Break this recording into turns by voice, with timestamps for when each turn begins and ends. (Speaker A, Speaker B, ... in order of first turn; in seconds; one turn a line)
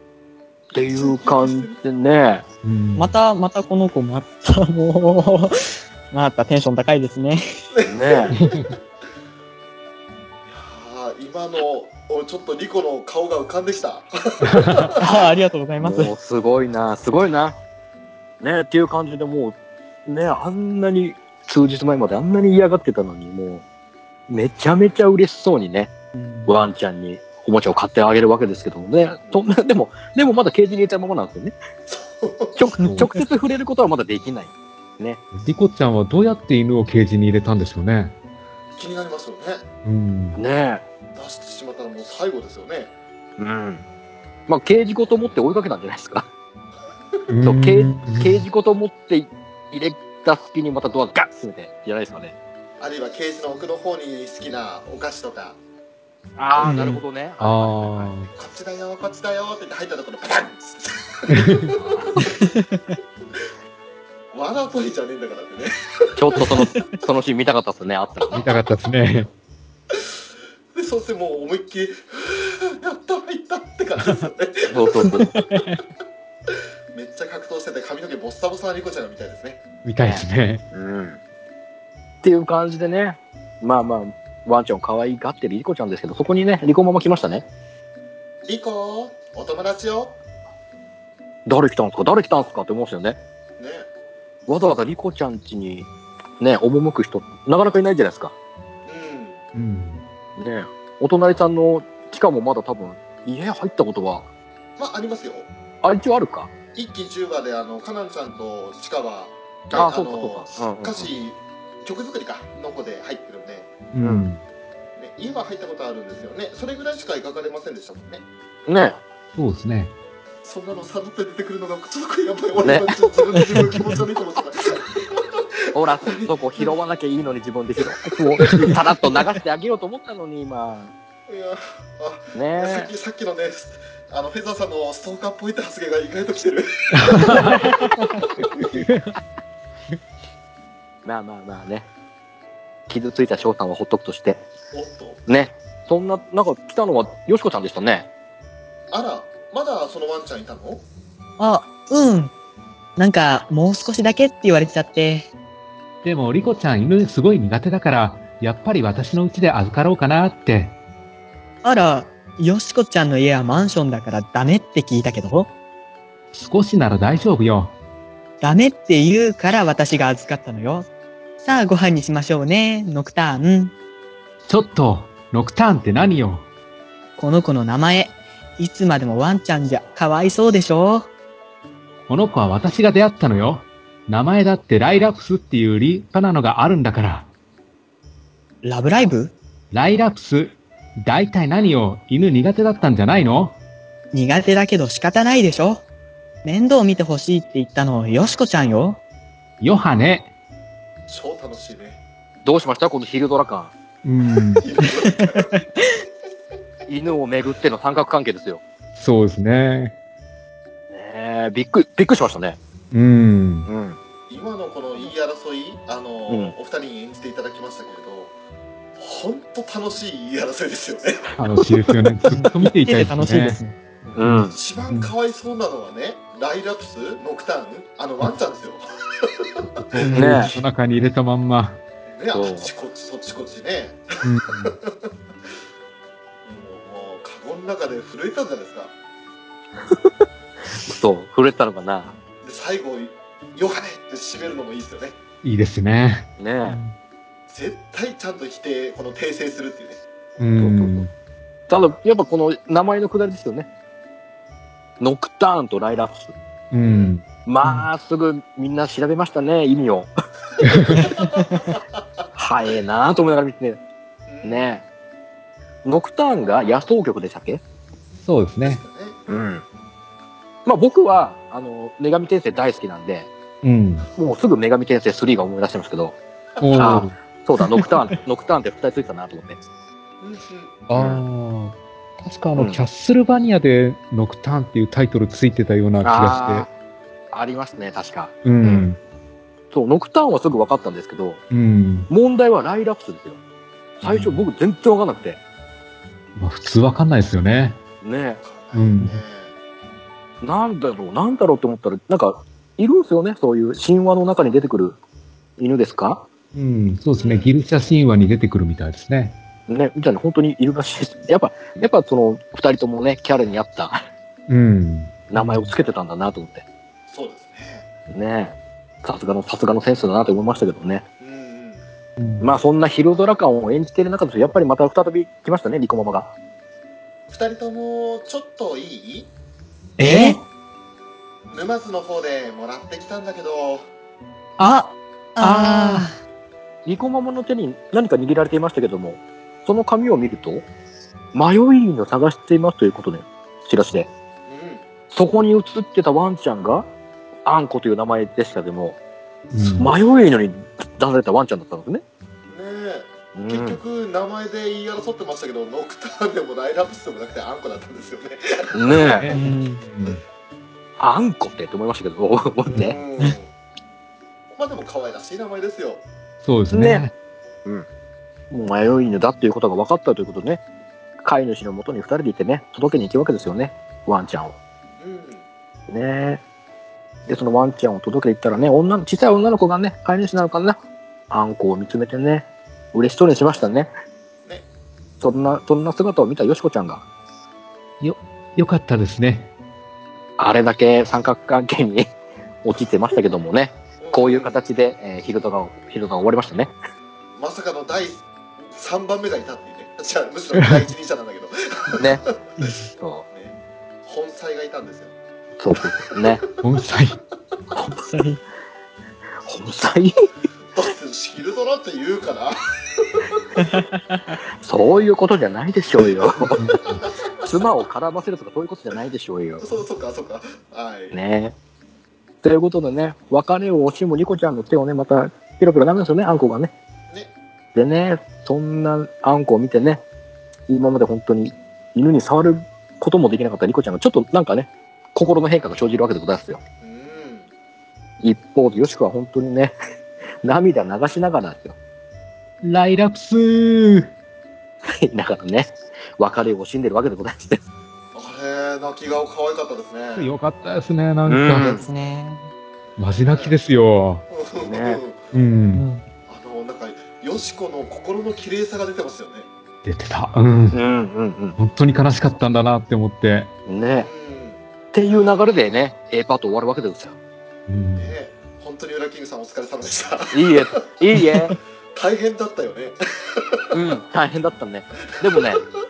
Speaker A: 0.7-2.5
Speaker B: 0.8-1.8
Speaker C: 2.6-3.1
Speaker D: 3.0-7.5
Speaker B: 7.7-8.5
Speaker A: 7.9-8.3
Speaker C: 8.4-8.7
Speaker B: 10.5-14.9
Speaker C: 14.5-14.9
Speaker D: 15.0-16.1
Speaker A: 15.8-17.6
Speaker A: 18.4-23.6
Speaker A: 24.3-25.9
Speaker D: 26.2-26.6
Speaker A: 26.4-31.5
Speaker B: 31.9-32.7
Speaker A: 32.5-35.2
Speaker C: 35.3-38.1
Speaker B: 38.8-39.6
Speaker C: 39.8-40.4
Speaker A: 40.3-40.8
Speaker B: 41.1-42.9
Speaker A: 43.4-43.8
Speaker A: 44.5-46.3
Speaker C: 47.3-48.4
Speaker A: 47.4-52.3
Speaker B: 52.8-55.6
Speaker A: 56.4-58.1
Speaker B: 56.5-57.0
Speaker D: 56.6-57.0
Speaker C: 57.4-58.3
Speaker B: 58.2-62.4
Speaker C: 61.3-61.7
Speaker B: 64.3-66.5
Speaker A: 66.2-68.4
Speaker B: 68.3-68.6
Speaker C: 68.3-69.3
Speaker B: 70.7-75.2
Speaker A: 74.7-75.4
Speaker D: 75.2-75.6
Speaker B: 76.9-79.6
Speaker C: 79.8-80.6
Speaker A: 80.0-81.2
Speaker A: 82.2-87.5
Speaker B: 88.4-90.1
Speaker A: 91.5-93.2
Speaker B: 93.6-93.9
Speaker A: 94.5-95.9
Speaker A: 96.4-98.3
Speaker B: 98.8-99.4
Speaker C: 99.5-100.0
Speaker A: 100.4-104.3
Speaker B: 104.8-105.5
Speaker A: 105.8-106.5
Speaker B: 106.7-113.7
Speaker A: 109.7-111.1
Speaker C: 113.9-114.4
Speaker A: 114.0-114.2
Speaker B: 115.0-118.2
Speaker A: 118.7-119.0
Speaker C: 119.3-119.9
Speaker B: 120.4-125.4
Speaker A: 122.6-123.0
Speaker A: 125.7-130.9
Speaker B: 126.0-126.7
Speaker B: 131.3-137.5
Speaker A: 132.3-132.9
Speaker C: 137.0-137.6
Speaker C: 138.6-139.2
Speaker A: 141.0-141.8
Speaker A: 142.9-144.4
Speaker B: 144.7-145.2
Speaker A: 145.3-148.1
Speaker B: 148.9-150.8
Speaker D: 151.4-152.3
Speaker D: 153.0-155.3
Speaker C: 156.0-160.8
Speaker D: 161.6-165.5
Speaker C: 166.3-167.8
Speaker D: 168.4-170.9
Speaker D: 171.4-173.7
Speaker C: 174.5-176.5
Speaker D: 177.2-181.1
Speaker C: 182.1-187.3
Speaker D: 188.6-189.3
Speaker C: 189.7-193.6
Speaker D: 194.1-195.8
Speaker D: 196.4-199.0
Speaker C: 199.6-200.3
Speaker B: 201.1-202.0
Speaker A: 202.4-203.7
Speaker C: 204.0-204.6
Speaker B: 204.6-205.5
Speaker D: 204.8-205.9
Speaker A: 206.9-208.6
Speaker C: 208.9-209.9
Speaker A: 210.9-212.6
Speaker C: 212.9-213.7
Speaker A: 213.7-214.0
Speaker B: 214.3-218.3
Speaker A: 216.3-216.5
Speaker B: 219.0-221.2
Speaker C: 221.4-223.6
Speaker D: 222.3-223.7
Speaker B: 224.1-229.7
Speaker A: 224.2-224.5
Speaker C: 224.2-225.1
Speaker C: 229.8-231.8
Speaker D: 230.0-230.3
Speaker A: 230.1-230.5
Speaker B: 232.1-234.1
Speaker A: 232.3-232.7
Speaker C: 234.2-234.7
Speaker B: 236.4-238.9
Speaker A: 239.8-240.1
Speaker A: 240.7-242.1
Speaker B: 242.4-245.2
Speaker C: 245.4-246.2
Speaker A: 246.4-246.8
Speaker D: 246.6-246.9
Speaker B: 247.5-250.0
Speaker C: 250.4-251.1
Speaker A: 250.6-251.1
Speaker A: 251.7-253.7
Speaker A: 255.0-256.3
Speaker C: 256.7-257.2
Speaker B: 256.8-257.1
Speaker A: 257.4-260.1
Speaker C: 260.6-261.0
Speaker B: 260.9-261.8
Speaker A: 262.4-263.8
Speaker B: 264.3-264.7
Speaker A: 264.4-264.8
Speaker A: 265.8-267.6
Speaker C: 268.2-268.8
Speaker B: 268.6-269.2
Speaker A: 269.3-269.6
Speaker A: 270.6-273.3
Speaker C: 273.6-274.1
Speaker A: 274.1-276.2
Speaker B: 276.6-277.0
Speaker C: 276.6-277.1
Speaker A: 276.8-279.6
Speaker B: 280.2-280.7
Speaker C: 280.9-286.6
Speaker A: 280.9-281.2
Speaker A: 282.6-282.8
Speaker A: 286.0-286.7
Speaker A: 287.3-288.9
Speaker C: 288.4-289.0
Speaker A: 289.7-291.4
Speaker C: 291.5-292.1
Speaker A: 292.1-293.4
Speaker C: 294.0-294.4
Speaker A: 294.0-295.4
Speaker C: 296.4-297.8
Speaker A: 298.0-298.4
Speaker B: 298.4-299.5
Speaker C: 298.7-299.2
Speaker A: 300.4-305.0
Speaker A: 305.6-306.3
Speaker C: 306.5-309.4
Speaker B: 307.2-307.5
Speaker A: 309.7-314.0
Speaker C: 314.5-315.2
Speaker A: 315.3-316.6
Speaker B: 317.1-317.9
Speaker A: 318.1-321.0
Speaker B: 321.2-321.8
Speaker A: 322.4-326.3
Speaker B: 327.3-329.3
Speaker D: 330.0-330.4
Speaker B: 331.5-333.9
Speaker D: 334.6-336.1
Speaker C: 335.5-336.0
Speaker A: 336.8-340.6
Speaker A: 341.3-344.1
Speaker B: 344.5-344.8
Speaker A: 345.1-346.9
Speaker A: 347.4-349.0
Speaker C: 349.5-349.9
Speaker A: 349.6-352.0
Speaker B: 352.5-359.1
Speaker A: 353.3-353.8
Speaker A: 358.7-359.3
Speaker C: 359.1-360.2
Speaker D: 359.3-359.6
Speaker A: 361.0-363.0
Speaker B: 362.6-363.5
Speaker B: 364.5-366.0
Speaker C: 366.4-367.1
Speaker A: 366.7-367.0
Speaker A: 368.5-370.6
Speaker A: 371.2-374.6
Speaker B: 375.0-375.4
Speaker A: 375.9-376.4
Speaker A: 377.3-380.8
Speaker A: 381.3-383.9
Speaker A: 385.2-387.0
Speaker C: 388.0-389.5
Speaker A: 390.4-392.1
Speaker A: 392.6-396.7
Speaker B: 394.0-394.6
Speaker B: 397.4-402.7
Speaker C: 400.6-400.8
Speaker A: 402.9-403.2
Speaker B: 403.3-405.1
Speaker A: 405.6-406.4
Speaker C: 406.6-407.2
Speaker D: 407.8-408.4
Speaker A: 409.4-410.1
Speaker B: 410.7-413.6
Speaker D: 413.6-414.4
Speaker A: 414.6-416.6
Speaker B: 414.8-415.1
Speaker B: 416.1-417.5
Speaker C: 416.6-416.9
Speaker A: 417.4-419.6
Speaker B: 419.6-421.2
Speaker A: 421.1-421.5
Speaker A: 422.4-426.7
Speaker A: 427.7-430.0
Speaker A: 430.7-436.6
Speaker B: 436.8-437.5
Speaker A: 438.2-439.7
Speaker A: 440.4-441.8
Speaker C: 442.6-444.1
Speaker A: 444.9-447.6
Speaker B: 448.1-450.3
Speaker C: 450.1-451.7
Speaker A: 451.2-451.8
Speaker D: 451.6-452.5
Speaker C: 453.0-454.2
Speaker B: 453.2-453.6
Speaker B: 454.3-455.2
Speaker A: 454.6-455.0
Speaker C: 455.3-455.8
Speaker D: 455.7-456.0
Speaker B: 456.3-459.5
Speaker C: 459.8-460.8
Speaker A: 460.7-461.6
Speaker C: 461.6-463.5
Speaker A: 463.7-464.1
Speaker B: 463.9-465.3
Speaker A: 464.9-467.2
Speaker C: 467.7-468.1
Speaker B: 467.9-470.8
Speaker A: 470.3-471.6
Speaker B: 471.9-473.7
Speaker A: 473.7-475.6
Speaker B: 475.2-475.5